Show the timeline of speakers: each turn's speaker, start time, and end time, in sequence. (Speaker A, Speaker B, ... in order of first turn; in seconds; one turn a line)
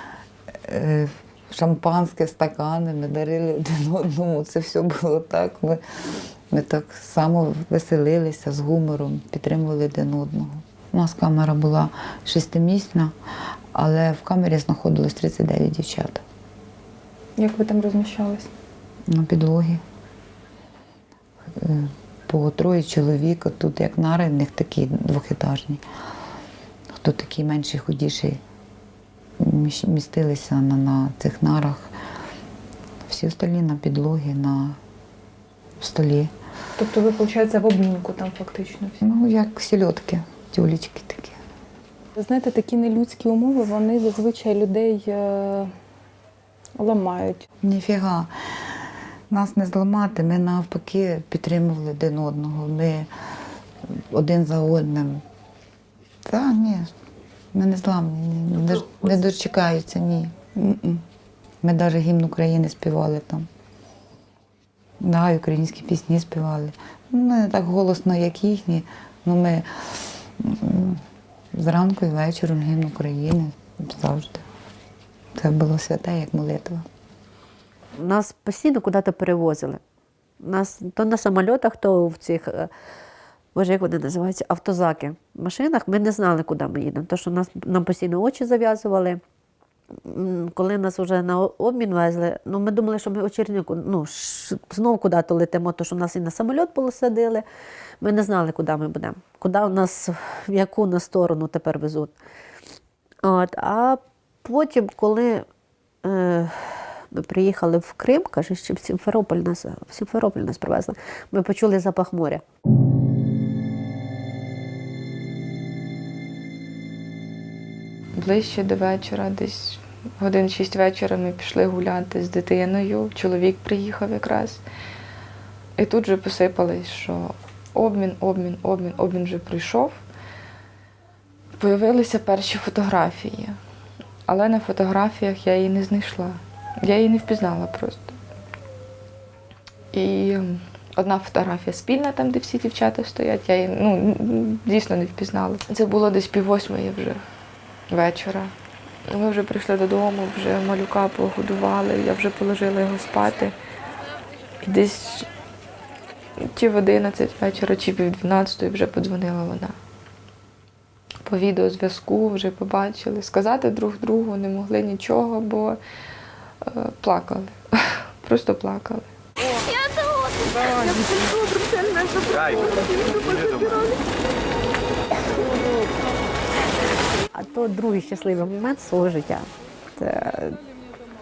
Speaker A: 0.6-13.1
Speaker A: 13.7-16.2
Speaker B: 17.4-18.5
Speaker A: 19.1-19.8
Speaker A: 21.6-25.8
Speaker A: 26.9-28.4
Speaker A: 29.4-31.9
Speaker A: 33.0-34.8
Speaker A: 35.8-36.3
Speaker B: 36.8-39.0
Speaker A: 39.0-41.4
Speaker B: 42.1-45.7
Speaker B: 46.8-47.5
Speaker A: 47.6-48.7
Speaker A: 49.3-53.1
Speaker A: 53.9-55.2
Speaker A: 56.2-56.9
Speaker A: 57.5-61.0
Speaker A: 61.6-63.5
Speaker A: 65.0-71.0
Speaker A: 71.5-74.4
Speaker A: 75.3-76.8
Speaker C: 78.0-79.8
Speaker C: 80.4-82.7
Speaker C: 83.5-89.2
Speaker C: 90.0-97.4
Speaker C: 98.0-102.1
Speaker C: 103.2-105.5
Speaker C: 106.0-112.4
Speaker D: 118.1-124.6
Speaker D: 125.8-130.0
Speaker D: 131.6-133.6
Speaker D: 134.3-138.2
Speaker D: 139.9-147.2
Speaker D: 147.9-148.5
Speaker D: 149.1-153.6
Speaker D: 154.6-155.3
Speaker D: 156.4-159.8
Speaker D: 161.2-165.8
Speaker D: 166.6-169.1
Speaker C: 169.7-174.1
Speaker C: 175.3-175.9
Speaker C: 177.3-180.6